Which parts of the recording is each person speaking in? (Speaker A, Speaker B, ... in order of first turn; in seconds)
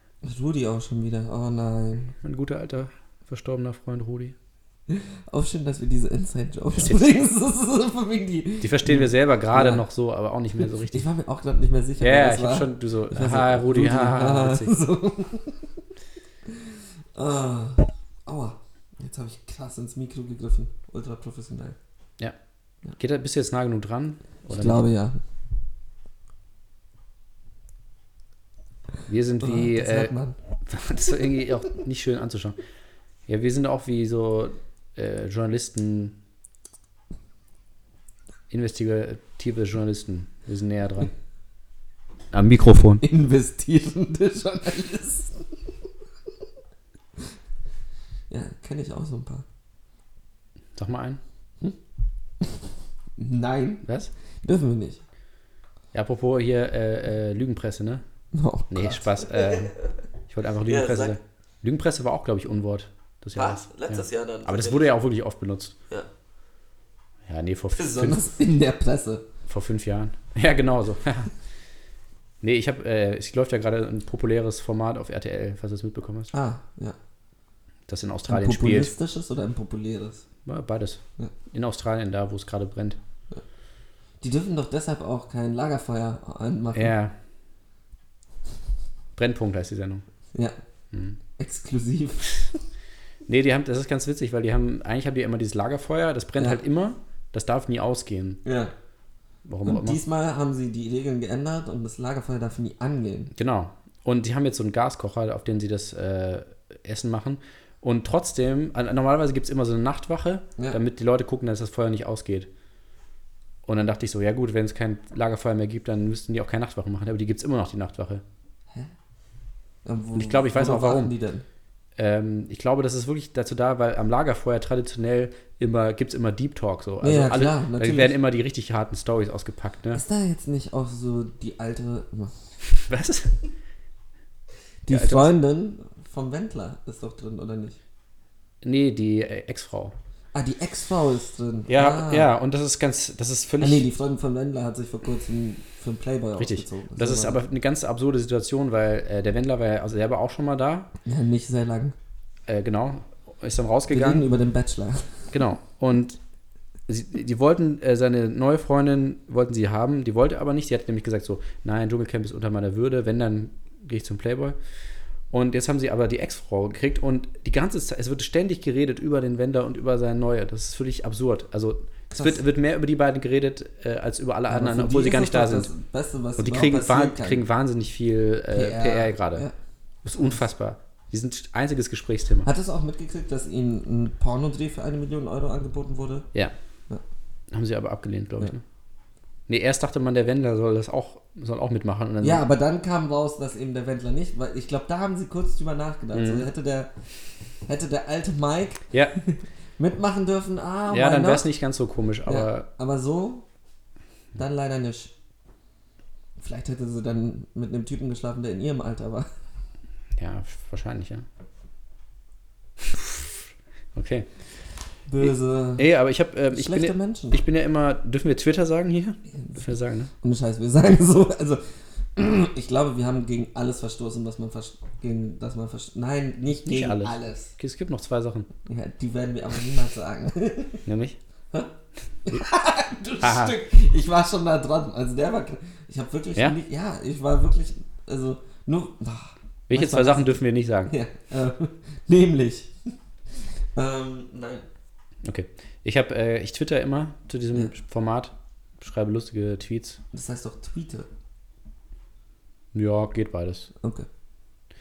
Speaker A: 0.2-2.1, 4.9-9.8, 10.8-15.7, 16.5-21.8, 24.5-25.2, 29.4-30.4, 43.0-45.5, 48.3-49.4, 53.2-53.8, 54.4-55.0, 58.3-59.9, 60.6-61.2, 63.4-64.9, 67.8-69.3, 76.3-77.0, 78.3-80.2, 84.2-86.9, 91.4-92.6, 98.4-98.7, 99.6-103.3, 119.8-121.4, 127.0-128.1, 129.9-132.5, 134.8-137.8, 140.3-142.3, 143.6-147.4, 151.0-151.9, 153.9-155.3, 172.1-172.4, 174.5-177.4, 178.5-179.5, 180.1-180.4, 182.4-186.3, 192.2-196.9, 197.6-201.4, 202.2-203.4, 204.3-205.1, 206.4-209.3, 215.1-215.8, 216.5-217.4, 219.3-219.6, 220.2-221.6, 222.2-227.5, 228.7-230.8, 232.2-242.7, 243.8-244.6, 250.1-251.1, 253.8-254.1
Speaker B: 2.2-4.3, 6.7-7.0, 8.6-11.1, 12.0-14.7, 23.0-24.8, 29.1-32.6, 33.3-36.2, 38.5-41.1, 42.3-43.0, 50.8-51.2, 53.8-54.1, 55.9-58.0, 58.7-59.7, 60.3-65.8, 67.2-68.2, 69.5-71.3, 72.4-76.3, 77.9-78.9, 80.5-83.0, 86.7-87.2, 89.1-90.0, 90.9-91.2, 93.3-98.4, 99.4-100.0, 103.3-112.5, 113.6-118.2, 120.1-121.1, 122.0-130.0, 132.9-133.4, 134.9-135.3, 138.6-139.9, 141.7-143.8, 146.4-150.9, 152.5-154.2, 155.3-156.2, 156.9-164.6, 165.3-175.7, 176.4-179.5, 180.0-182.5, 187.5-188.6, 189.5-192.4, 196.1-196.5, 198.9-199.2, 200.9-202.7, 210.2-211.2, 212.8-214.3, 215.2-220.1, 226.6-228.5, 230.8-231.2, 233.2-233.6, 239.7-240.9, 245.2-250.0, 252.7-253.7